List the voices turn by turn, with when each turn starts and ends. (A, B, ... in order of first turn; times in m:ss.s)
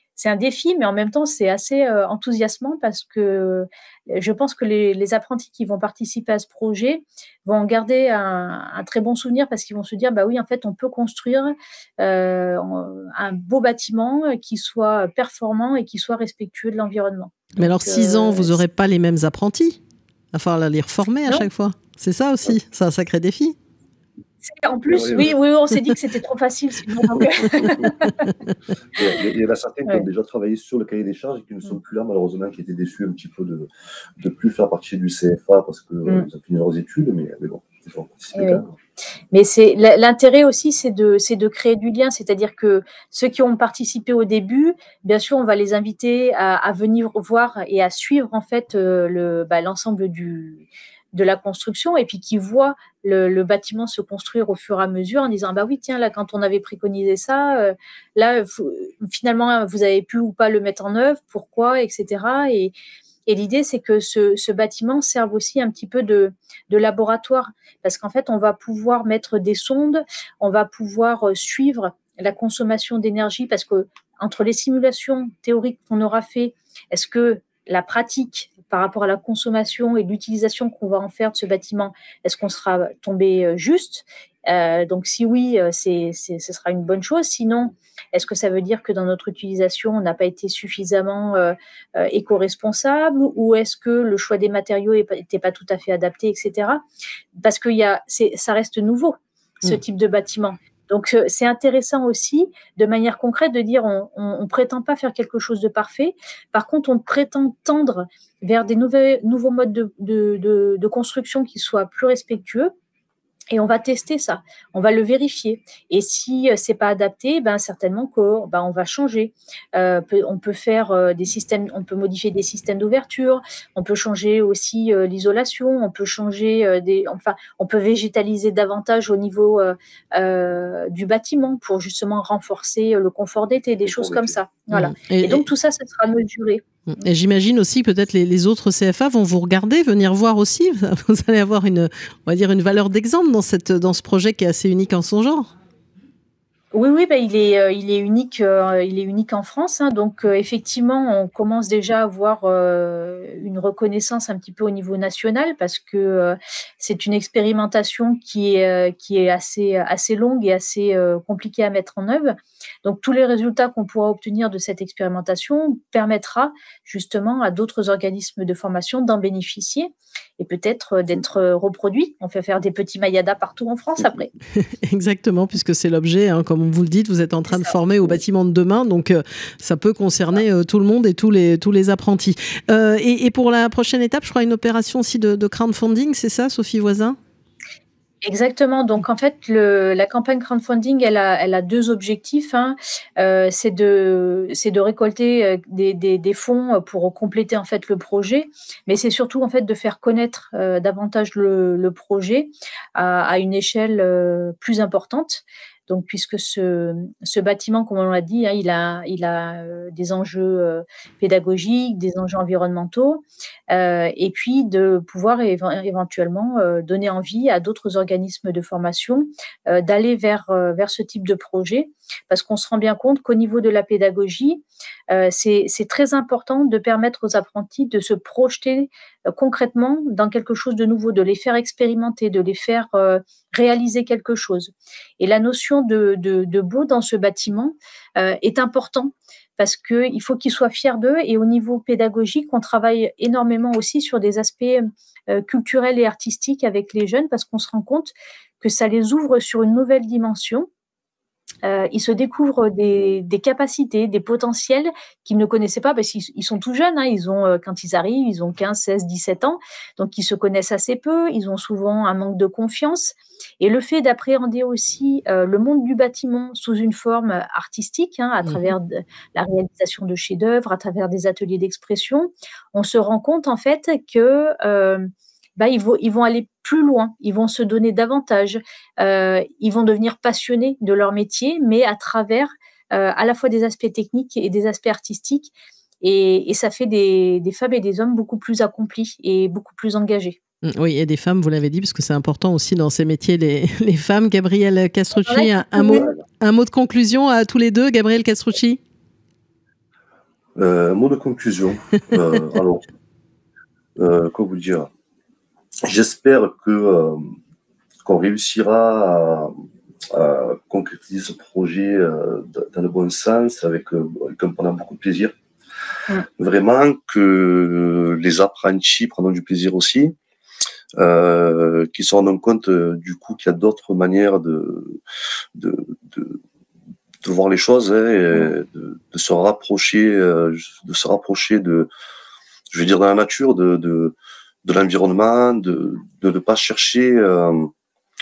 0:00.2-0:18.6 A
0:17.6-0:19.8 B
0:20.3-0:23.6 B
0:24.4-0:28.3 A
0:24.9-0:25.4 C
0:27.6-0:27.9 C
0:29.0-0:33.7 C
0:34.2-0:38.7 C
0:38.4-0:38.6 A
0:39.3-1:02.7 A
1:03.3-1:36.8 A
1:37.4-1:52.7 A
1:53.5-2:16.6 A
2:13.8-2:14.4 C
2:14.7-2:15.4 B
2:16.9-2:25.5 B
2:26.7-2:54.3 A
2:54.6-3:07.2 B
3:08.2-4:10.7 A
4:11.6-4:50.4 A
4:28.5-4:28.7 B
4:50.6-4:58.8 B
4:55.1-4:56.1 A
5:00.6-5:02.9 C
5:04.0-5:04.9 C
5:05.8-5:07.3 C
5:08.0-5:09.5 C
5:10.1-5:15.4 C
5:16.3-5:20.2 C
5:21.0-5:25.0 C
5:25.6-5:26.4 C
5:27.2-5:31.9 C
5:32.7-5:37.7 C